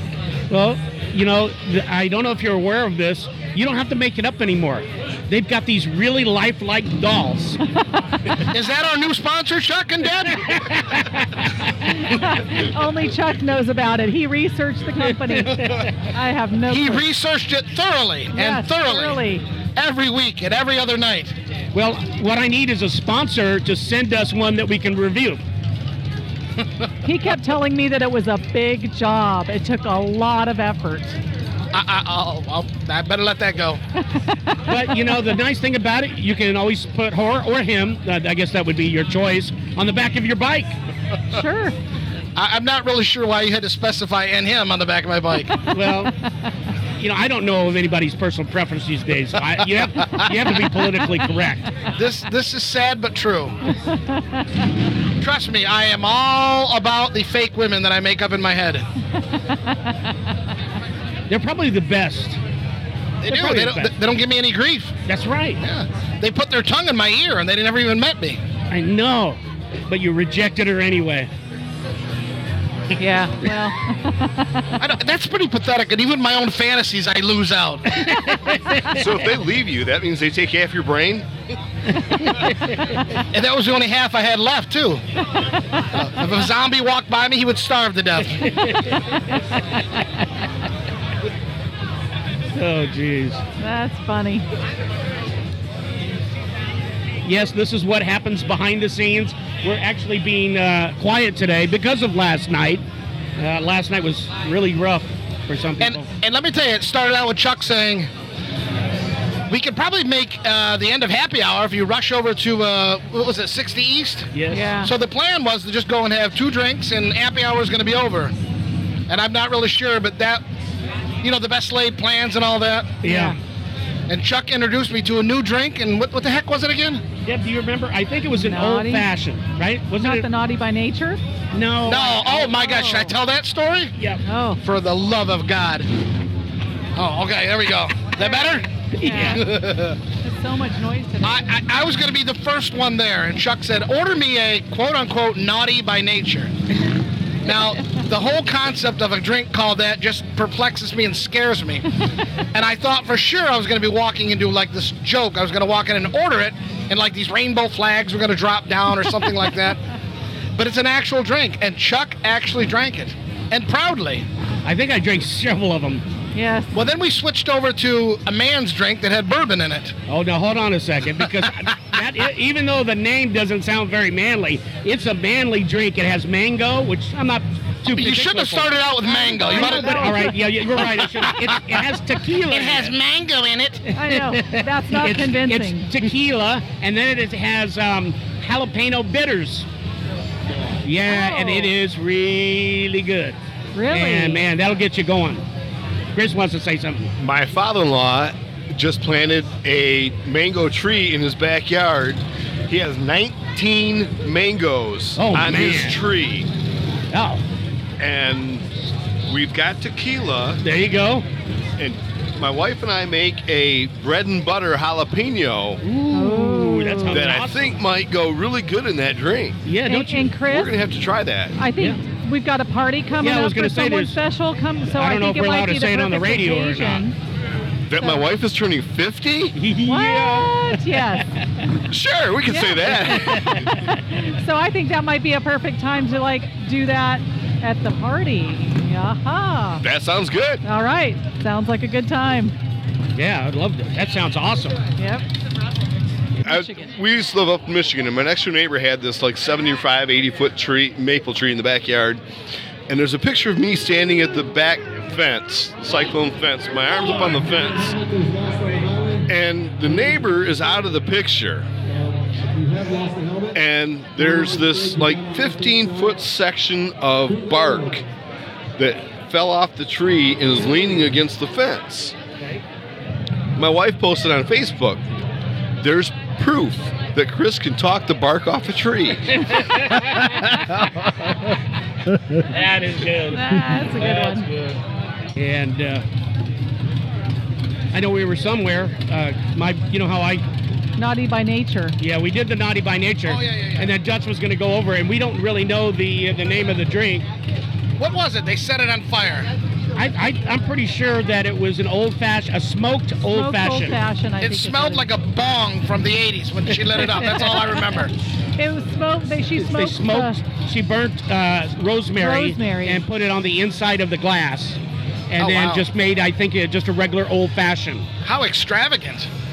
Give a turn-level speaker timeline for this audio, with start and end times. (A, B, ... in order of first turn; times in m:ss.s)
0:00.5-0:07.6 A
0:08.5-0:10.7 B
0:10.5-0:11.7 A
0:11.9-0:17.1 C
0:15.0-0:15.9 A
0:16.7-0:19.2 B
0:18.3-0:19.4 C
0:19.8-0:21.3 B
0:21.7-0:25.4 A
0:27.0-0:31.2 C
0:31.7-0:33.8 B
0:34.7-0:40.7 A
0:41.3-0:41.8 C
0:42.4-0:45.6 B
0:45.7-0:46.1 A
0:47.0-0:51.7 A
0:52.0-0:53.6 B
0:55.2-0:58.9 B
1:01.3-1:02.4 A
1:03.2-1:05.0 B
1:03.3-1:03.9 A
1:05.1-1:05.6 A
1:05.6-1:08.4 B
1:08.7-1:11.3 A
1:13.0-1:14.4 C
1:14.8-1:18.2 B
1:17.9-1:19.0 A
1:18.9-1:21.3 D
1:22.4-1:23.0 A
1:23.3-1:25.0 B
1:25.9-1:28.5 B
1:28.5-1:29.4 A
1:32.5-1:33.4 A
1:33.6-1:34.4 C
1:37.2-1:42.8 A
1:43.4-1:46.1 A
1:45.8-1:48.1 B
1:49.5-1:58.3 B
1:54.3-1:54.7 A
1:54.5-1:54.9 C
1:59.1-2:00.4 B
2:01.2-2:03.0 B
2:03.0-2:03.4 A
2:03.0-2:03.4 C
2:04.1-2:07.0 B
2:07.2-2:10.3 A
2:08.3-2:09.1 C
2:10.0-2:11.2 C
2:11.5-2:12.3 A
2:11.8-2:13.9 B
2:12.2-2:13.1 C
2:14.2-2:14.6 C
2:14.6-2:15.9 B
2:17.0-2:18.7 B
2:18.2-2:19.5 C
2:18.9-2:19.5 A
2:19.3-2:20.0 B
2:20.2-2:21.5 C
2:21.2-2:26.5 B
2:27.4-2:31.9 B
2:32.5-2:39.8 B
2:40.6-2:44.3 B
2:44.6-2:46.0 A
2:46.4-2:46.8 C
2:46.7-2:50.0 B
2:50.1-2:58.8 A
2:57.9-3:01.8 B
2:59.0-3:00.4 C
2:59.4-3:02.9 A
3:02.4-3:03.8 B
3:03.9-3:05.9 C
3:04.0-3:09.7 A
3:10.8-3:13.4 A
3:11.0-3:11.7 C
3:13.8-3:14.4 C
3:13.9-3:15.4 A
3:16.2-3:17.1 A
3:17.2-3:26.5 D
3:25.2-3:26.0 A
3:27.1-3:27.4 A
3:28.0-3:28.7 D
3:29.3-3:30.6 D
3:30.6-3:31.3 A
3:31.8-3:35.8 D
3:35.8-3:37.6 A
3:36.1-3:37.3 C
3:37.1-3:39.6 D
3:39.6-3:40.4 A
3:39.8-3:40.7 C
3:40.4-3:41.6 D
3:41.6-3:47.2 C
3:43.2-3:44.2 A
3:44.9-3:47.0 A
3:47.9-3:49.6 D
3:48.0-3:48.2 C
3:49.6-3:51.4 A
3:49.9-3:51.3 C
3:51.9-3:53.6 D
3:52.5-3:53.2 C
3:53.1-3:53.8 A
3:54.1-3:59.8 C
3:59.8-4:00.6 D
4:00.6-4:02.6 C
4:03.2-4:04.8 A
4:05.0-4:05.2 C
4:06.4-4:06.9 C
4:06.4-4:12.2 D
4:12.9-4:18.1 D
4:19.3-4:21.7 D
4:23.5-4:28.0 D
4:28.8-4:32.2 D
4:33.6-4:35.1 D
4:35.8-4:39.6 D
4:39.4-4:40.6 A
4:42.5-4:44.8 A
4:43.3-4:44.5 C
4:45.4-4:46.0 A
4:47.9-4:50.4 A
4:51.0-4:52.0 C
4:52.0-4:57.2 A
4:53.3-4:53.9 B
4:58.0-4:59.5 B
5:00.0-5:04.0 A
5:03.3-5:05.1 C
5:04.4-5:08.1 B
5:08.6-5:10.4 C
5:09.6-5:14.8 A
5:12.2-5:13.0 C
5:15.3-5:18.1 A
5:15.4-5:15.9 B
5:18.2-5:19.3 B